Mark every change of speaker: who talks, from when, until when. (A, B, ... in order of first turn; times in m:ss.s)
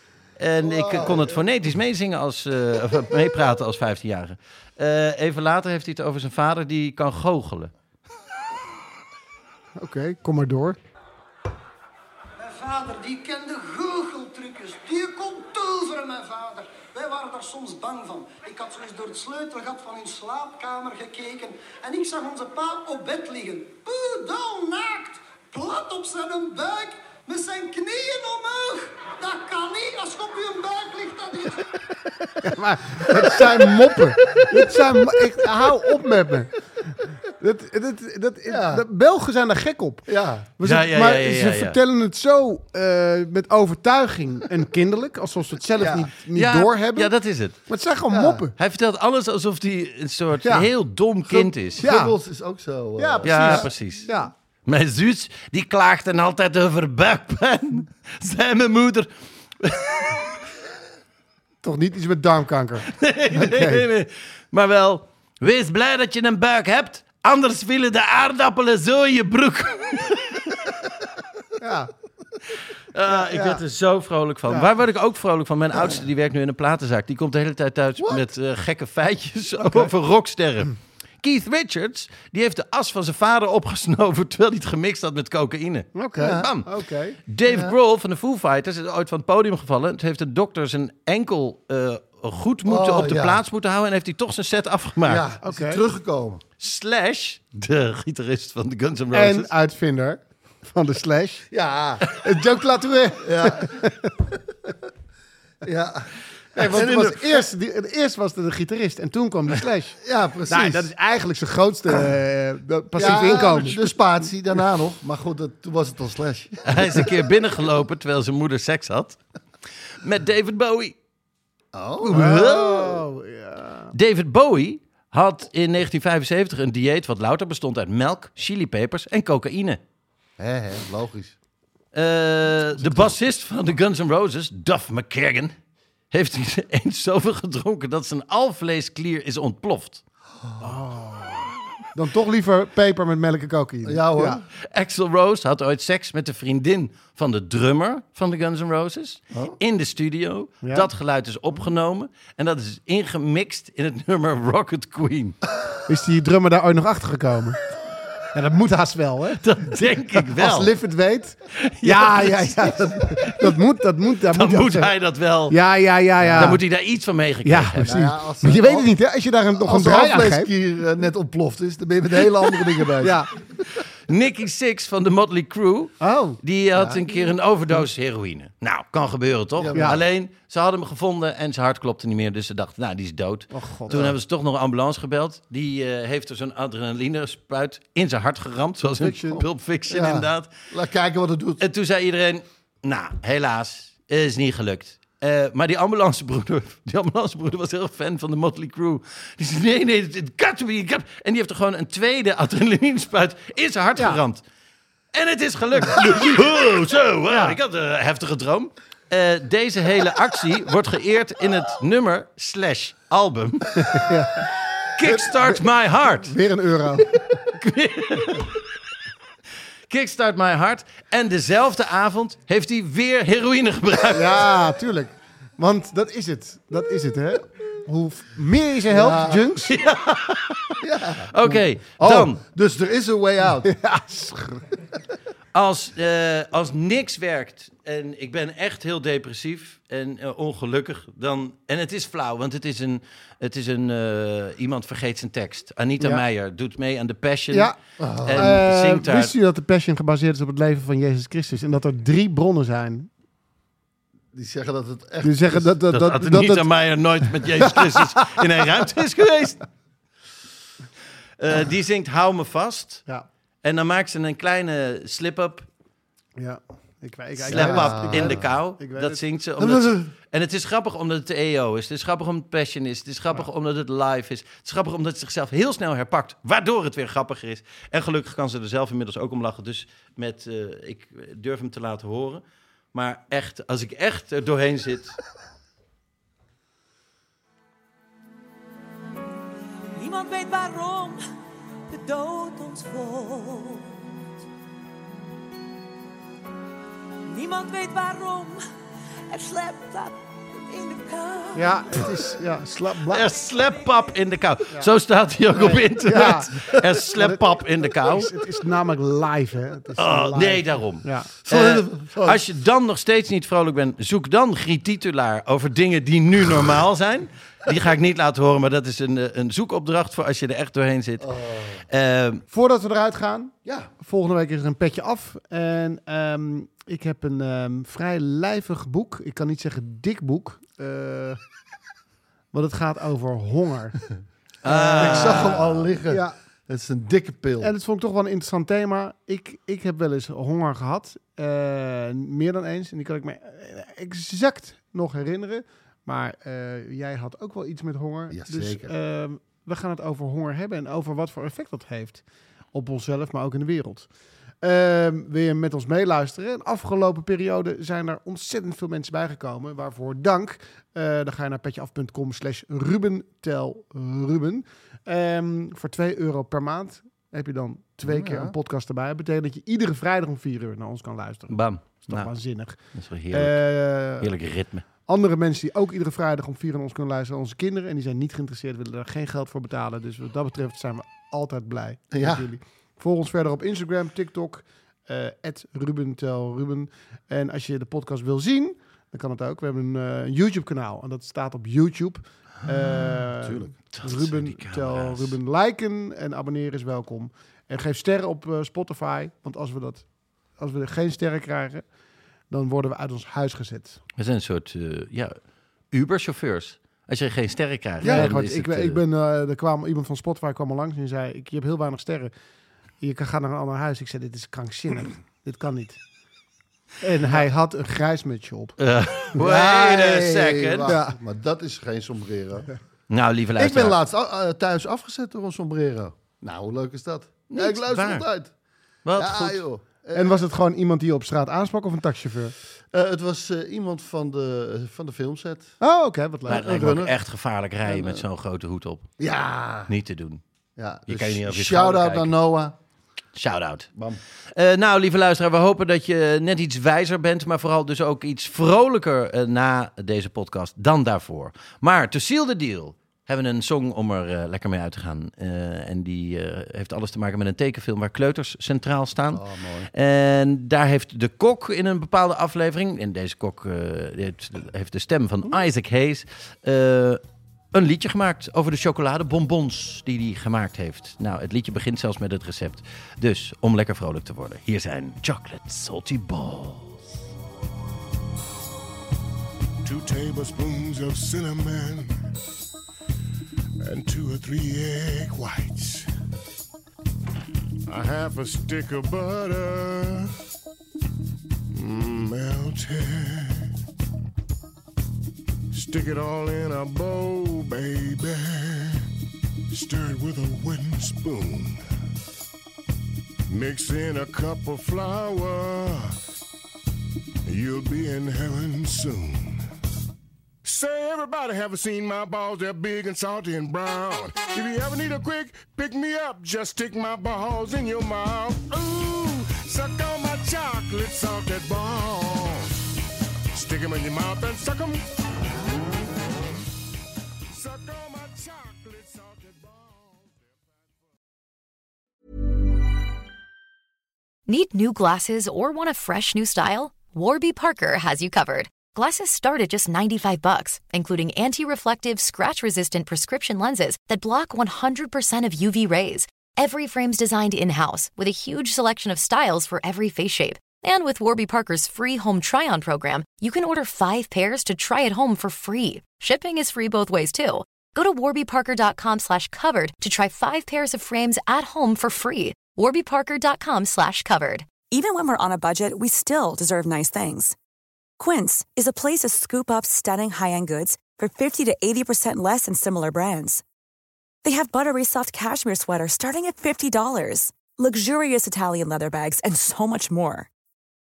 0:00.4-0:07.7 A
0:00.6-0:01.4 B
0:09.8-0:10.8 C
0:12.4-0:31.8 D
0:32.4-0:36.5 C
0:37.4-0:40.1 C
0:38.5-0:38.8 B
0:40.1-0:40.5 B
0:40.6-0:48.5 C
0:40.6-0:41.8 A
0:45.8-0:46.1 B
0:46.3-0:47.6 A
0:48.1-0:48.5 B
0:48.6-0:51.9 A
0:51.3-0:53.8 B
0:51.8-0:52.1 C
0:53.0-0:54.3 C
0:53.2-0:54.1 A
0:54.7-0:59.1 A
0:59.6-1:00.3 A
1:01.6-1:03.8 C
1:02.9-1:10.7 A
1:11.6-1:11.9 C
1:12.9-1:26.7 A
1:13.1-1:13.6 C
1:18.0-1:18.3 B
1:26.0-1:27.2 C
1:26.2-1:26.5 B
1:27.3-1:35.2 A
1:27.5-1:27.7 B
1:32.6-1:33.4 B
1:35.0-1:36.4 B
1:35.4-1:35.8 C
1:36.6-1:39.5 A
1:39.1-1:41.5 C
1:41.5-1:42.1 B
1:42.1-1:44.1 C
1:43.2-1:44.1 B
1:45.6-1:47.5 B
1:46.6-1:53.9 C
1:50.0-1:50.9 B
1:53.0-1:57.2 B
1:56.7-1:59.2 A
2:00.0-2:01.0 A
2:01.7-2:03.0 B
2:02.0-2:02.8 A
2:02.1-2:03.9 C
2:03.9-2:09.8 A
2:10.4-2:11.4 B
2:11.9-2:15.5 A
2:16.1-2:20.0 A
2:20.4-2:20.8 B
2:20.6-2:24.4 C
2:23.8-2:24.5 B
2:24.6-2:35.4 A
2:30.6-2:30.9 C
2:35.9-2:37.6 C
2:38.3-2:39.4 C
2:39.4-2:40.7 A
2:40.3-2:44.9 C
2:41.6-2:43.5 A
2:44.3-2:45.6 A
2:45.5-2:46.6 C
2:46.2-2:46.6 B
2:46.2-2:47.9 A
2:47.4-2:50.5 C
2:47.8-2:49.0 B
2:49.6-2:53.4 B
2:53.0-2:53.3 C
2:54.1-3:10.5 A
2:56.0-2:56.4 C
2:56.7-2:57.3 B
2:59.6-3:00.0 B
2:59.8-3:00.0 C
3:03.5-3:04.1 C
3:03.9-3:04.2 B
3:09.0-3:09.4 C
3:09.2-3:11.6 B
3:11.6-3:24.4 A
3:25.1-3:33.7 A
3:27.3-3:27.6 C
3:33.8-3:34.4 C
3:35.0-3:36.3 A
3:35.1-3:37.2 C
3:37.5-3:38.6 A
3:39.9-3:44.5 A
3:44.1-3:49.7 C
3:48.9-3:49.7 B
3:49.6-3:50.8 A
3:50.8-3:53.7 B
3:51.3-3:52.4 A
3:53.6-3:54.7 C
3:55.5-4:09.3 A
4:08.0-4:08.6 B
4:08.4-4:13.1 C
4:14.3-4:15.8 B
4:15.2-4:16.7 C
4:15.9-4:19.6 A
4:17.6-4:18.4 C
4:21.4-4:23.1 A
4:23.6-4:25.7 A
4:26.4-4:29.2 C
4:27.4-4:45.2 A
4:27.5-4:28.6 B
4:29.6-4:30.1 B
4:50.0-4:51.2 E
4:51.9-4:53.8 E
4:57.4-4:58.6 E
4:59.3-5:00.1 E
5:00.7-5:01.6 F
5:00.9-5:02.0 E
5:01.6-5:03.2 C
5:03.1-5:08.3 A
5:05.6-5:11.3 C
5:10.0-5:21.3 A
5:11.5-5:12.4 B
5:21.2-5:21.8 B
5:21.9-5:22.4 A
5:22.5-5:31.4 C
5:32.5-5:34.0 C
5:34.6-5:35.8 A
5:34.6-5:36.4 C
5:34.6-5:37.7 B
5:37.6-5:54.1 C
5:48.3-5:48.9 B
5:54.6-6:12.8 C
6:08.0-6:08.6 B
6:11.5-6:14.8 A
6:13.3-6:14.3 C
6:15.1-6:41.9 C
6:22.1-6:22.5 B
6:33.4-6:33.7 B
6:33.9-6:35.4 A
6:42.5-6:44.0 C
6:44.2-6:45.4 A
6:45.9-6:49.0 A
6:48.0-6:48.3 B
6:48.0-6:52.3 C
6:53.0-6:56.0 C
6:57.0-6:58.8 C
6:58.8-7:01.0 A
6:59.4-7:02.7 B
7:00.9-7:01.2 C
7:03.1-7:04.0 A
7:03.6-7:08.5 B
7:07.5-7:08.3 A
7:09.0-7:09.6 A
7:09.2-7:10.4 B
7:10.1-7:12.6 C
7:12.9-7:15.8 B
7:15.8-7:16.7 C
7:16.5-7:17.2 B
7:16.5-7:19.2 A
7:17.8-7:18.2 B
7:19.2-7:19.9 B
7:19.9-7:20.4 A
7:20.8-7:22.8 B
7:21.1-7:22.4 A
7:23.4-7:23.9 A
7:24.0-7:24.2 B
7:24.5-7:47.2 A
7:39.3-7:39.9 B
7:47.7-7:57.2 A
7:59.8-8:02.2 G
8:03.8-8:06.1 G
8:07.9-8:10.3 G
8:11.7-8:13.7 G
8:15.7-8:19.1 G
8:19.7-8:21.8 G
8:23.5-8:26.2 G
8:27.5-8:29.6 G
8:30.6-8:42.8 G
8:43.5-8:45.0 G
8:47.5-8:50.8 G
8:54.5-9:24.7 H
9:24.9-9:27.6 F
9:28.2-9:33.6 F
9:34.4-9:40.5 F